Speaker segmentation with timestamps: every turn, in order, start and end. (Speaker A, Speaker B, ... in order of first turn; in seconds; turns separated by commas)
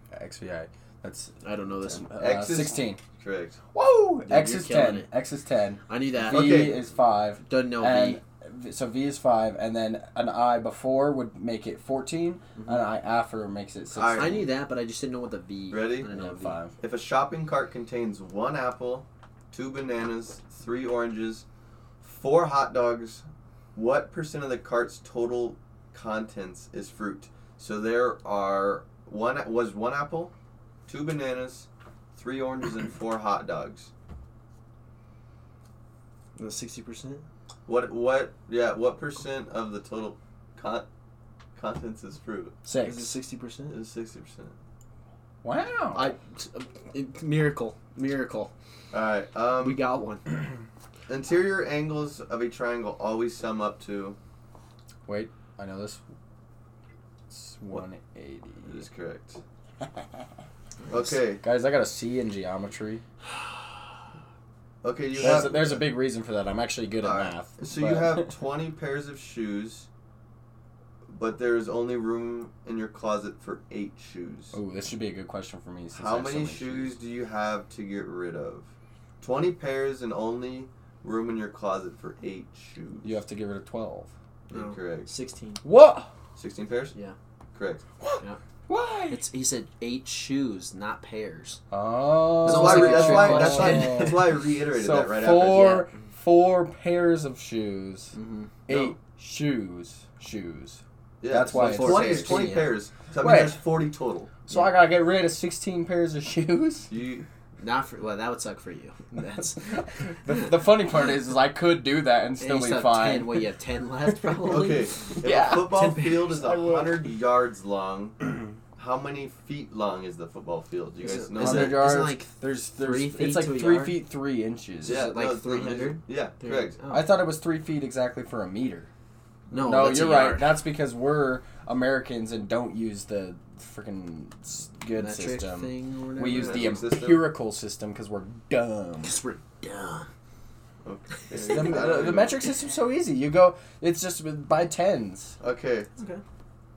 Speaker A: 0.1-3.0, Speaker B: 1.4-2.1, Speaker C: 2.2-3.6, Speaker A: 3.7-14.4, Speaker B: 4.3-5.1, Speaker B: 5.9-6.7, Speaker C: 6.3-6.8, Speaker B: 7.4-8.2, Speaker B: 12.6-12.8, Speaker C: 13.9-14.5, Speaker B: 14.2-16.6, Speaker C: 15.7-16.1, Speaker A: 16.1-16.8, Speaker C: 16.8-21.4, Speaker C: 22.0-30.3, Speaker C: 30.9-33.9, Speaker B: 36.4-37.2, Speaker C: 37.7-40.9, Speaker C: 41.6-42.5, Speaker A: 42.6-43.1, Speaker B: 42.8-43.8, Speaker C: 43.7-44.5, Speaker A: 45.4-46.1, Speaker B: 45.9-48.5, Speaker C: 48.9-49.8, Speaker B: 49.6-50.2, Speaker C: 51.1-54.2, Speaker A: 55.1-56.0, Speaker A: 57.3-58.8, Speaker C: 58.6-59.4, Speaker C: 60.9-61.4, Speaker A: 61.2-63.0, Speaker C: 64.8-65.9, Speaker A: 65.2-68.3, Speaker C: 67.0-69.9, Speaker C: 71.1-74.5, Speaker A: 74.5-77.0, Speaker C: 75.9-78.7, Speaker C: 79.2-83.2, Speaker A: 83.0-84.1, Speaker B: 84.5-85.6, Speaker C: 84.5-85.1, Speaker A: 85.6-86.1, Speaker C: 86.4-87.0, Speaker C: 87.5-87.8, Speaker A: 88.0-89.2, Speaker B: 89.1-91.6, Speaker A: 91.7-98.1, Speaker C: 92.4-95.8, Speaker B: 92.4-94.4, Speaker B: 95.5-95.9, Speaker B: 98.1-98.5, Speaker A: 98.7-102.6, Speaker C: 98.7-99.0, Speaker C: 101.2-104.3, Speaker B: 101.5-102.8, Speaker A: 103.2-103.6, Speaker A: 104.5-106.9, Speaker C: 106.9-107.2, Speaker B: 107.6-109.7, Speaker A: 109.6-113.5, Speaker B: 112.4-114.9, Speaker A: 114.1-117.1, Speaker C: 114.5-118.2, Speaker B: 115.5-116.4, Speaker C: 118.8-121.9, Speaker B: 121.0-124.0, Speaker A: 121.4-125.0, Speaker B: 124.8-127.2, Speaker C: 124.8-126.8, Speaker A: 126.9-128.9, Speaker B: 129.5-130.6, Speaker A: 129.6-139.2, Speaker B: 134.9-136.8, Speaker C: 136.3-137.3, Speaker B: 139.0-140.1, Speaker C: 140.8-142.4, Speaker B: 141.3-141.8, Speaker A: 141.4-145.3, Speaker C: 145.4-145.9, Speaker B: 146.0-146.2